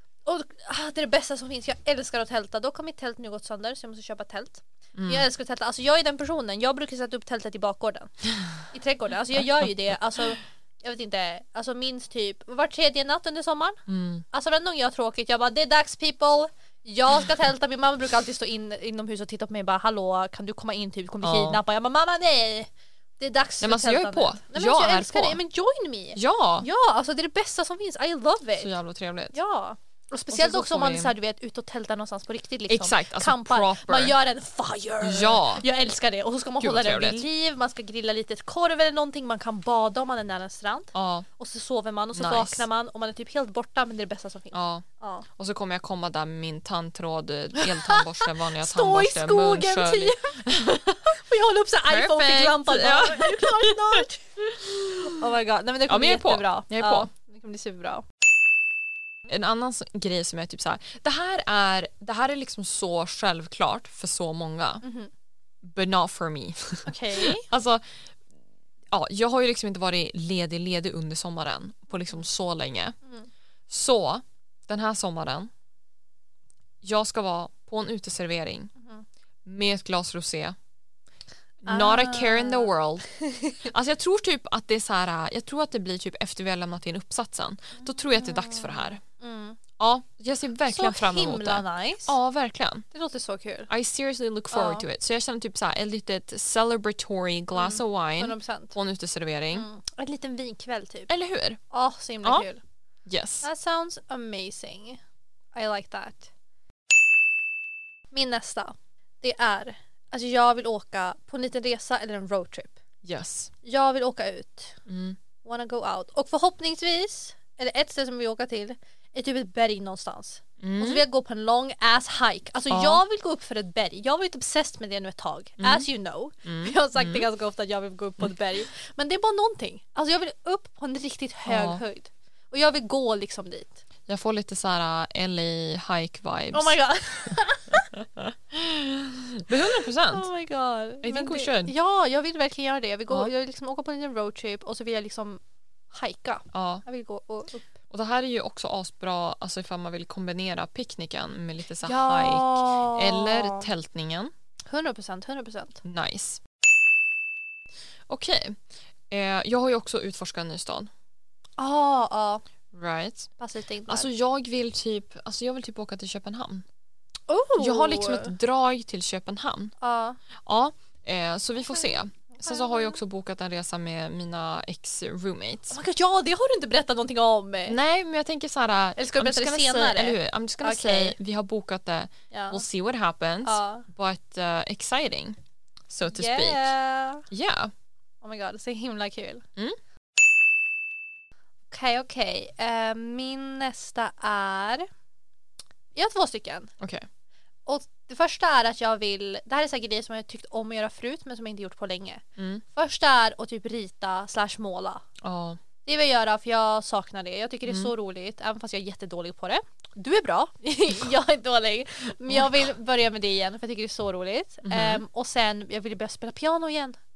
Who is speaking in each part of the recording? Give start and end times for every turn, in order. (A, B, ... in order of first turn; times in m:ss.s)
0:00.2-0:13.8 A
0:05.0-0:05.2 B
0:09.4-0:09.7 B
0:13.9-0:14.2 B
0:14.3-0:28.8 A
0:21.2-0:21.6 B
0:23.6-0:25.4 B
0:26.1-0:26.7 B
0:28.6-0:29.4 B
0:29.3-0:45.3 A
0:30.3-0:31.1 B
0:32.7-0:34.2 B
0:35.0-0:35.6 B
0:36.6-0:37.2 B
0:40.9-0:41.2 B
0:42.1-0:42.6 B
0:44.5-0:44.8 B
0:45.4-0:51.2 B
0:47.6-0:50.5 A
0:51.1-0:54.2 A
0:51.9-0:55.2 B
0:55.0-0:58.0 A
0:55.9-0:57.1 B
0:59.3-1:04.8 B
1:04.8-1:05.1 A
1:05.6-1:08.0 B
1:06.8-1:07.5 A
1:08.9-1:13.0 B
1:13.7-1:15.5 B
1:16.8-1:18.7 B
1:18.8-1:19.0 A
1:19.4-1:20.6 B
1:21.6-1:23.1 B
1:21.7-1:23.7 A
1:23.6-1:29.0 B
1:27.8-1:29.6 A
1:29.8-1:32.8 B
1:30.6-1:32.2 A
1:32.9-1:33.7 A
1:33.7-1:39.7 B
1:34.5-1:34.8 A
1:37.5-1:38.8 A
1:39.5-1:41.1 A
1:41.1-1:41.6 B
1:41.7-1:42.6 A
1:43.0-1:43.5 B
1:43.4-1:45.0 A
1:45.5-1:46.3 A
1:48.1-1:52.8 A
1:53.0-1:53.5 B
1:53.6-1:54.8 A
1:54.9-1:55.2 B
1:55.4-2:13.8 A
2:00.6-2:01.0 B
2:02.7-2:03.0 B
2:05.6-2:05.9 B
2:06.4-2:07.2 B
2:11.4-2:11.8 B
2:14.1-2:16.8 B
2:16.5-2:17.9 A
2:17.7-2:20.3 B
2:19.6-2:27.7 A
2:21.0-2:21.7 B
2:26.5-2:26.8 B
2:27.9-2:34.3 B
2:31.8-2:33.7 A
2:34.7-2:35.8 A
2:35.8-2:36.4 B
2:38.1-2:40.9 B
2:41.6-2:42.4 A
2:42.7-2:43.3 B
2:43.4-2:44.1 A
2:43.9-2:46.6 B
2:47.3-2:48.3 A
2:47.6-2:49.7 B
2:49.8-2:50.2 A
2:50.4-2:55.8 B
2:51.7-2:53.0 A
2:55.7-2:57.8 A
2:57.7-3:05.4 B
2:59.0-3:01.1 A
3:02.3-3:02.6 A
3:03.4-3:03.8 A
3:05.9-3:06.7 B
3:06.1-3:07.2 A
3:07.3-3:07.7 B
3:08.2-3:09.4 A
3:11.7-3:14.8 A
3:15.9-3:16.7 A
3:16.8-3:17.1 B
3:17.6-3:25.0 A
3:22.4-3:22.6 B
3:25.2-3:25.6 B
3:25.8-3:37.0 A
3:27.6-3:27.9 B
3:32.3-3:32.6 B
3:34.6-3:35.0 B